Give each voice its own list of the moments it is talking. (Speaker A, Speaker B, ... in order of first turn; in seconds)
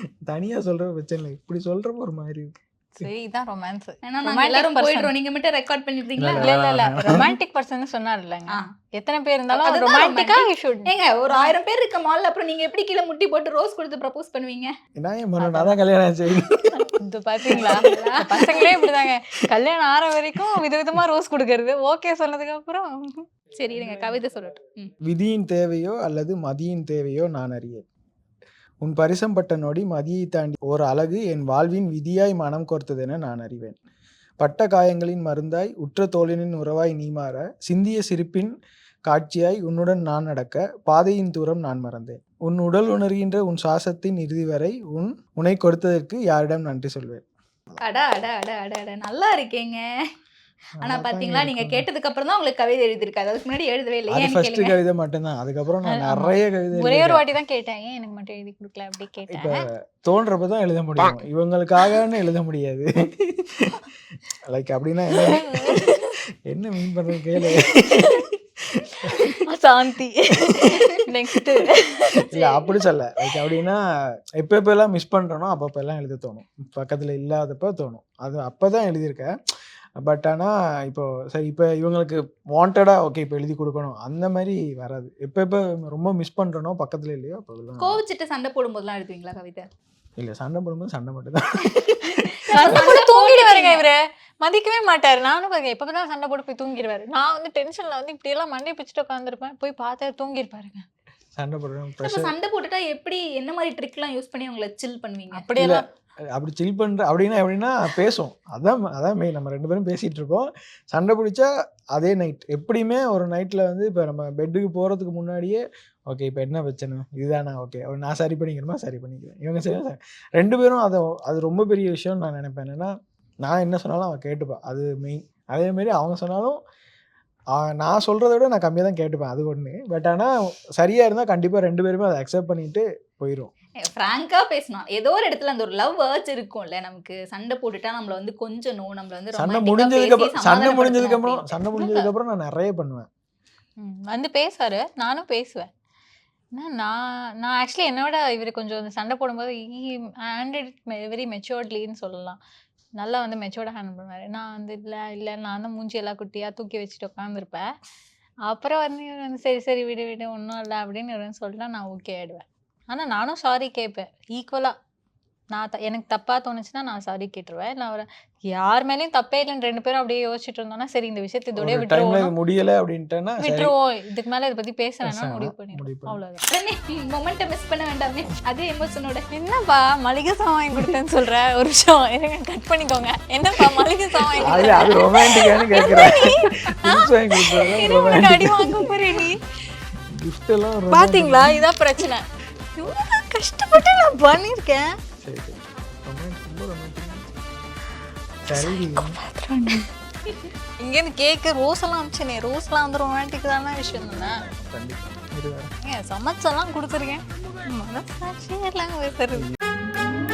Speaker A: 0.2-3.0, 6.2-7.3, 14.9-16.9, 25.0-27.9, 28.8-33.8, 34.4-38.5, 39.1-47.8, 50.8-51.9, 54.1-57.2, 59.3-63.8, 64.4-69.4, 70.3-71.6, 72.3-73.8, 74.3-79.3, 80.0-88.0, 90.2-92.9, 101.3-102.3, 105.6-126.6, 127.5-133.5, 139.3-143.1, 171.6-173.7, 175.0-176.2, 184.4-188.9, 190.0-191.6, 195.2-197.3, 198.5-199.2, 204.4-205.7
Speaker B: 3.0-5.1, 6.4-11.5, 15.4-15.7, 17.0-23.3, 55.9-59.7, 65.2-66.1, 67.4-68.3, 68.9-72.7, 92.5-100.9, 105.3-105.8, 141.7-142.1, 143.8-145.7, 146.5-152.4, 153.0-157.7, 158.5-164.7, 165.5-172.3, 173.4-176.4, 179.3-189.4, 190.9-192.2, 192.8-194.9, 198.5-199.9, 200.8-204.4, 205.8-209.5
Speaker C: 4.0-6.5, 9.5-14.7, 17.5-18.7, 23.6-24.9, 47.8-49.8, 50.8-54.8, 87.8-89.7, 92.5-93.8, 102.0-105.5, 133.8-141.6, 176.5-179.2, 184.5-185.0